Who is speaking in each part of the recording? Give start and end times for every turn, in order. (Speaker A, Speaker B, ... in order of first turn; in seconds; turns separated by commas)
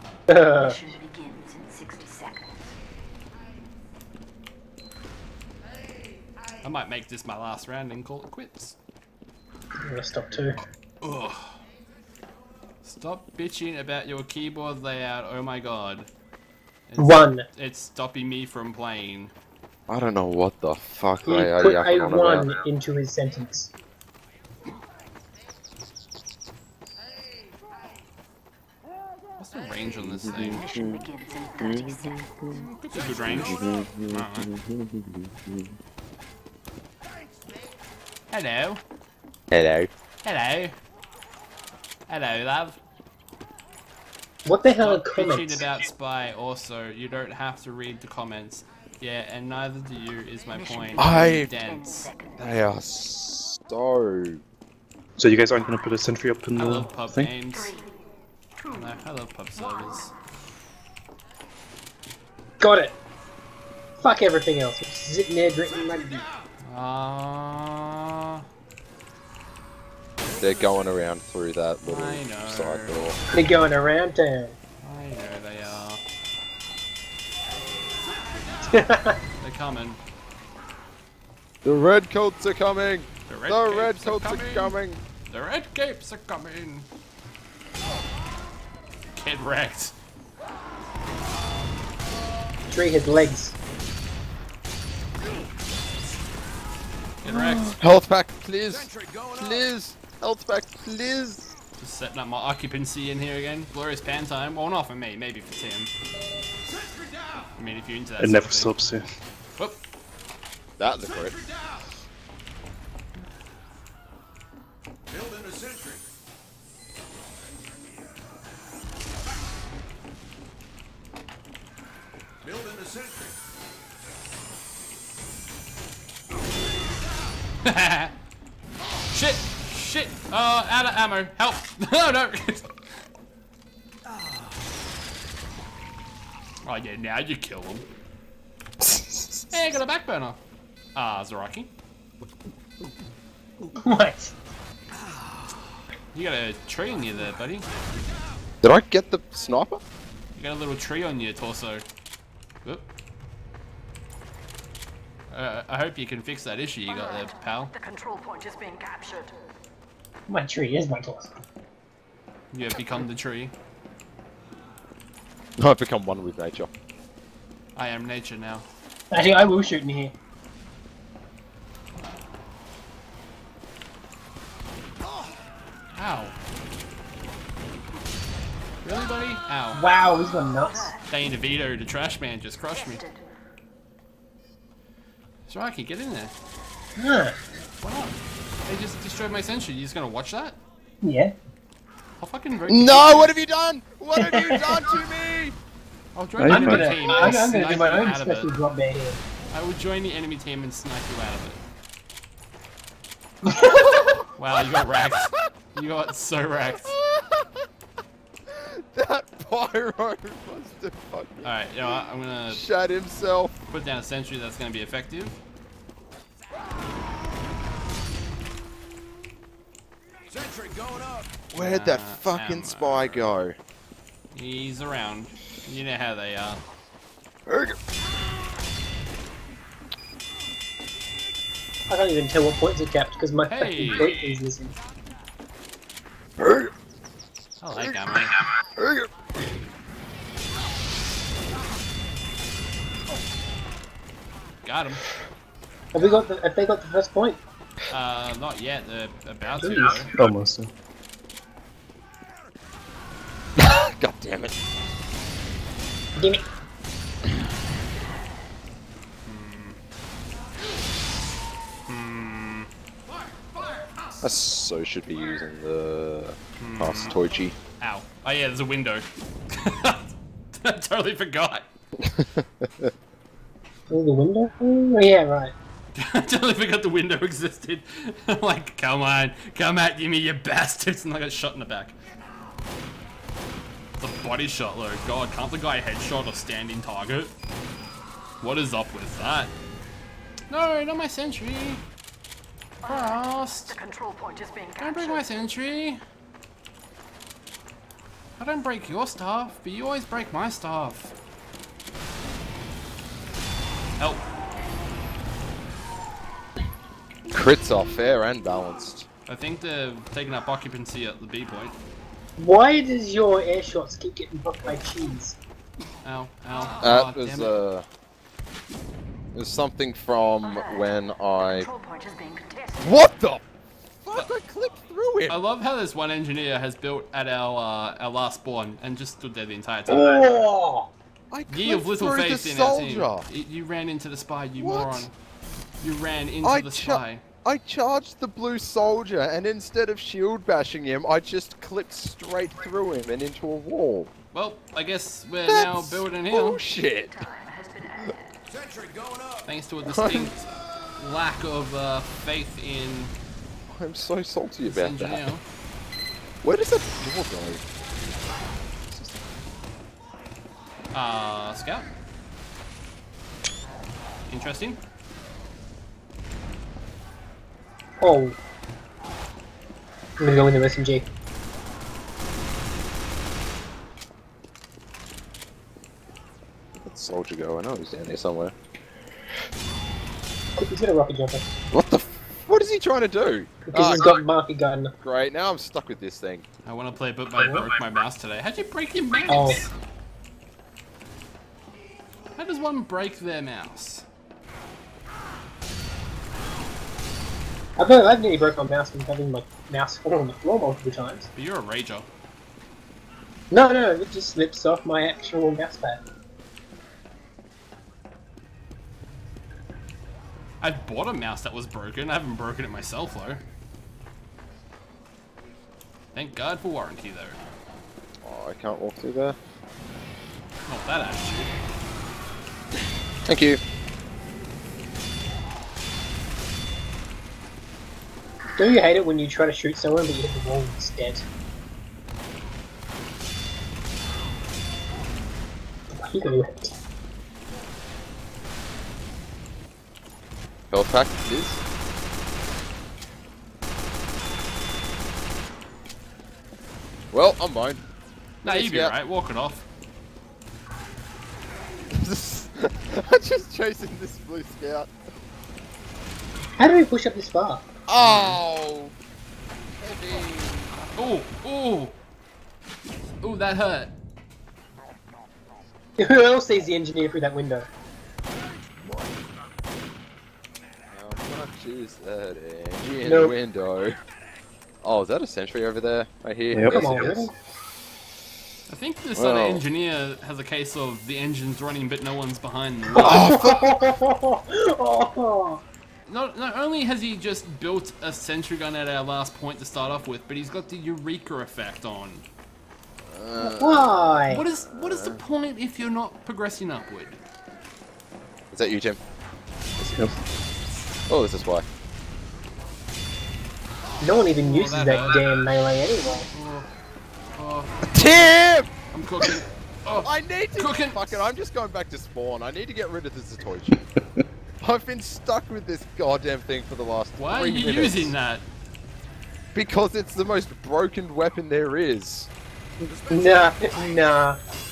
Speaker A: 0.3-0.8, Speaker B: 0.5-2.7, Speaker C: 6.6-8.7, Speaker A: 9.8-10.6, Speaker C: 11.0-11.6, Speaker C: 12.8-16.1, Speaker C: 16.9-19.3, Speaker A: 17.0-17.4, Speaker D: 19.9-22.5, Speaker A: 21.3-23.7, Speaker C: 29.4-30.6, Speaker D: 29.9-31.1, Speaker B: 30.4-32.6, Speaker D: 31.6-32.6, Speaker C: 32.6-34.5, Speaker E: 32.9-33.6, Speaker D: 33.2-35.7, Speaker E: 37.1-37.6, Speaker C: 38.3-38.8, Speaker D: 39.5-39.9, Speaker C: 40.2-40.7, Speaker C: 42.1-42.8, Speaker A: 44.5-45.7, Speaker C: 44.8-52.1, Speaker B: 50.5-52.6, Speaker D: 51.0-51.5, Speaker D: 52.4-54.4, Speaker F: 55.2-57.3, Speaker C: 56.5-57.7, Speaker B: 57.5-58.0, Speaker B: 58.6-59.0, Speaker C: 58.7-60.1, Speaker B: 59.6-60.1, Speaker A: 62.6-62.9, Speaker A: 64.0-66.2, Speaker C: 66.6-68.5, Speaker D: 70.3-73.2, Speaker C: 71.8-73.0, Speaker A: 73.3-74.5, Speaker C: 74.8-76.0, Speaker A: 78.7-79.2, Speaker C: 79.4-80.0, Speaker D: 81.6-85.0, Speaker C: 83.3-84.7, Speaker C: 85.3-86.8, Speaker C: 89.2-89.9, Speaker A: 92.7-93.5, Speaker C: 97.2-97.8, Speaker D: 97.2-101.5, Speaker E: 98.7-99.7, Speaker C: 101.8-105.9, Speaker E: 106.7-107.5, Speaker C: 107.5-108.7, Speaker F: 108.2-109.0, Speaker D: 110.8-111.4, Speaker E: 111.2-111.8, Speaker E: 115.1-116.1, Speaker E: 122.4-123.4, Speaker C: 127.6-128.1, Speaker C: 129.1-132.7, Speaker C: 136.6-137.8, Speaker D: 138.8-139.6, Speaker C: 139.5-140.4, Speaker C: 140.9-141.7, Speaker A: 143.8-144.3, Speaker C: 146.1-147.7, Speaker D: 148.6-149.8, Speaker C: 150.3-151.8, Speaker C: 155.3-157.7, Speaker B: 156.9-159.4, Speaker A: 160.3-161.3, Speaker C: 162.5-163.5, Speaker D: 165.6-166.7, Speaker C: 167.8-168.7, Speaker A: 169.1-170.1, Speaker C: 175.9-176.3, Speaker C: 178.8-179.8, Speaker A: 179.7-180.9, Speaker B: 180.7-181.0, Speaker C: 181.1-183.0, Speaker B: 182.9-183.2, Speaker C: 185.5-186.3, Speaker A: 187.0-187.4, Speaker C: 187.8-190.6, Speaker A: 191.0-191.3, Speaker C: 192.2-193.4, Speaker D: 192.7-195.6, Speaker A: 194.2-194.8, Speaker C: 196.1-198.5, Speaker F: 196.4-197.4, Speaker A: 196.4-199.2, Speaker C: 199.5-201.6, Speaker A: 203.4-203.9, Speaker D: 203.7-204.3, Speaker C: 204.3-206.9, Speaker D: 204.9-205.3, Speaker D: 206.8-207.6, Speaker D: 208.5-211.9, Speaker C: 211.4-212.6, Speaker D: 212.5-213.5, Speaker C: 213.7-215.3, Speaker E: 220.3-221.5, Speaker D: 221.5-223.6, Speaker C: 221.5-223.3, Speaker C: 224.3-226.6, Speaker D: 227.5-227.8, Speaker A: 231.9-234.7, Speaker C: 233.5-234.1, Speaker D: 236.4-236.7, Speaker C: 237.6-238.4, Speaker D: 237.8-239.1, Speaker C: 244.6-245.0, Speaker A: 245.9-247.4, Speaker C: 247.9-250.1, Speaker A: 249.6-250.1, Speaker F: 250.1-250.7, Speaker D: 253.6-254.6, Speaker A: 256.2-256.4, Speaker C: 259.2-259.8, Speaker C: 261.9-262.7, Speaker D: 264.2-267.5, Speaker C: 266.6-267.2, Speaker C: 267.8-271.6, Speaker D: 272.0-272.9, Speaker A: 273.9-275.5, Speaker C: 275.9-281.9, Speaker C: 284.0-287.3, Speaker C: 288.4-289.5, Speaker C: 290.5-291.8, Speaker B: 292.8-295.3, Speaker C: 292.8-293.8, Speaker C: 294.8-296.0, Speaker C: 298.4-301.1, Speaker C: 304.0-304.2, Speaker D: 307.3-309.1, Speaker C: 309.3-311.8, Speaker A: 312.4-315.4, Speaker C: 316.0-317.5, Speaker D: 316.8-317.9, Speaker D: 319.3-321.7, Speaker B: 320.4-320.9, Speaker B: 321.5-322.9, Speaker D: 322.8-323.4, Speaker D: 324.0-325.4, Speaker C: 325.3-330.2, Speaker A: 329.9-330.9, Speaker D: 331.3-333.3, Speaker C: 331.5-335.1, Speaker D: 334.6-335.1, Speaker C: 335.8-337.2, Speaker D: 336.4-344.1, Speaker C: 344.3-346.6, Speaker D: 345.5-347.2, Speaker B: 347.1-348.2, Speaker E: 348.5-349.5, Speaker C: 349.4-353.1, Speaker D: 349.8-350.3, Speaker D: 353.7-355.3, Speaker C: 354.6-355.4, Speaker D: 356.4-357.6, Speaker D: 358.9-359.2, Speaker C: 360.9-361.9, Speaker C: 364.3-364.8, Speaker A: 368.0-368.4, Speaker A: 370.2-371.1, Speaker D: 376.8-378.5, Speaker A: 380.6-381.4, Speaker D: 381.7-384.2, Speaker A: 383.7-384.9, Speaker D: 385.0-386.4, Speaker C: 386.6-389.7, Speaker A: 387.4-387.7, Speaker A: 389.3-389.6, Speaker C: 392.4-394.0, Speaker A: 397.8-401.3, Speaker C: 401.4-402.1, Speaker A: 403.5-406.0, Speaker C: 410.6-413.4, Speaker C: 416.1-417.4, Speaker D: 418.2-419.4, Speaker C: 420.7-421.5, Speaker D: 423.3-423.6, Speaker A: 428.6-431.2, Speaker A: 435.9-436.7, Speaker D: 440.7-441.6, Speaker D: 447.1-447.8, Speaker D: 448.4-448.9, Speaker C: 448.4-449.6, Speaker D: 451.9-454.9, Speaker A: 456.6-457.7, Speaker D: 457.9-458.9, Speaker C: 458.0-458.4, Speaker D: 459.8-460.8, Speaker C: 461.0-461.9, Speaker C: 463.2-463.9, Speaker A: 466.0-467.7, Speaker E: 468.7-469.3, Speaker D: 470.9-474.0, Speaker A: 473.0-473.4, Speaker D: 474.8-477.3, Speaker F: 476.5-476.8, Speaker A: 476.7-477.3, Speaker C: 478.7-483.3, Speaker D: 479.1-479.6, Speaker D: 482.9-483.7, Speaker A: 482.9-485.6, Speaker C: 486.1-492.2, Speaker D: 493.0-495.2, Speaker A: 493.4-494.4, Speaker C: 494.3-497.2, Speaker D: 498.5-499.0, Speaker D: 499.8-500.2, Speaker D: 501.1-501.6, Speaker A: 504.0-506.3, Speaker C: 504.4-505.2, Speaker C: 506.3-506.7, Speaker C: 507.3-508.4, Speaker D: 507.9-509.4, Speaker C: 508.9-511.0, Speaker D: 509.9-513.8, Speaker D: 514.6-518.1, Speaker C: 517.2-518.4, Speaker D: 519.5-522.3, Speaker A: 522.8-524.4, Speaker E: 522.9-523.9